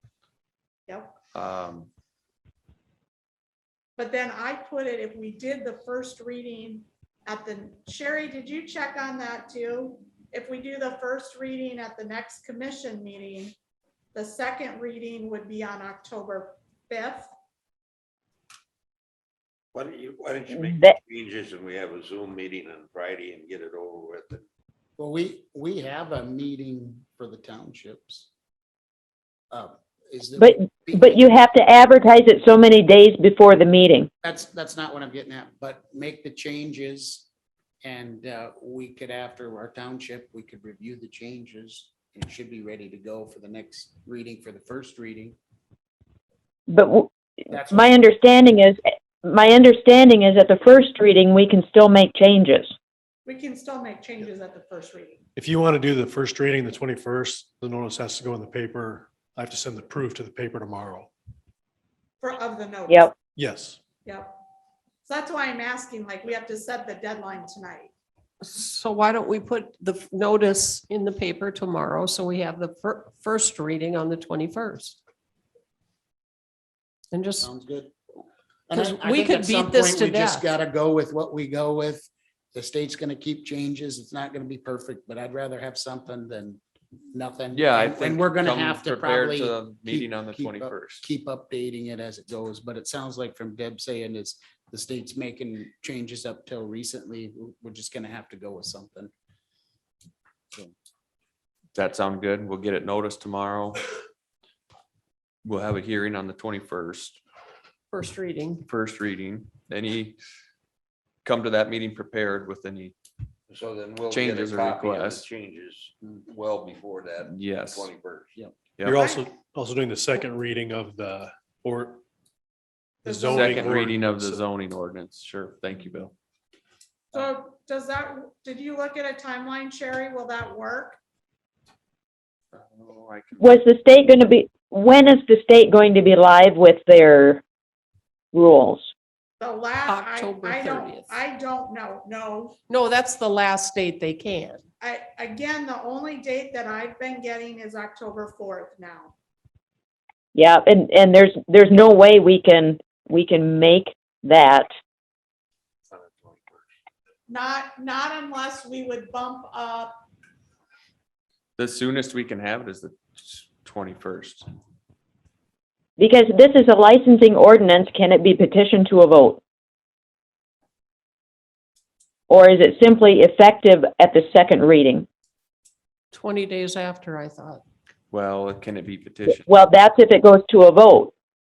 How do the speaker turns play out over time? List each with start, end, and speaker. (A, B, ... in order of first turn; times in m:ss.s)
0:00.9-0:01.1 A
0:01.3-0:01.9 B
0:04.0-0:13.6 A
0:14.1-0:17.3 A
0:19.7-0:24.4 C
0:20.6-0:21.0 D
0:25.0-0:28.3 E
0:29.5-0:31.2 E
0:30.4-0:34.1 D
0:34.2-0:37.3 E
0:37.8-0:45.4 E
0:46.7-0:47.1 D
0:47.5-0:48.0 E
0:47.7-0:52.7 D
0:53.2-0:55.2 A
0:55.4-1:01.1 F
1:02.2-1:03.1 A
1:02.9-1:03.1 D
1:03.4-1:03.8 F
1:04.0-1:04.4 A
1:05.0-1:07.9 A
1:08.4-1:15.0 G
1:17.1-1:17.5 G
1:17.4-1:17.9 E
1:18.7-1:39.1 E
1:18.7-1:20.5 G
1:27.5-1:31.0 B
1:41.7-1:43.8 B
1:45.4-1:47.2 B
1:47.9-1:48.6 G
1:48.6-1:50.2 B
1:51.2-1:52.9 B
1:53.5-1:58.4 C
1:54.1-1:55.2 B
1:57.3-1:57.9 B
1:58.8-2:02.0 F
1:58.9-1:59.3 A
2:03.0-2:03.6 A
2:03.0-2:04.4 F
2:03.3-2:06.1 B
2:07.1-2:11.0 A
2:12.5-2:13.6 B
2:13.4-2:17.4 D
2:18.3-2:18.9 D
2:19.4-2:22.6 A
2:19.8-2:21.2 G
2:22.7-2:24.6 G
2:24.8-2:29.1 A
2:30.3-2:34.7 D
2:35.9-2:36.7 C
2:37.3-2:40.0 A
2:41.6-2:44.4 B
2:46.0-2:49.4 D
2:52.3-2:55.0 D
2:56.1-2:57.6 G
2:58.1-2:59.5 B
2:59.4-3:01.1 D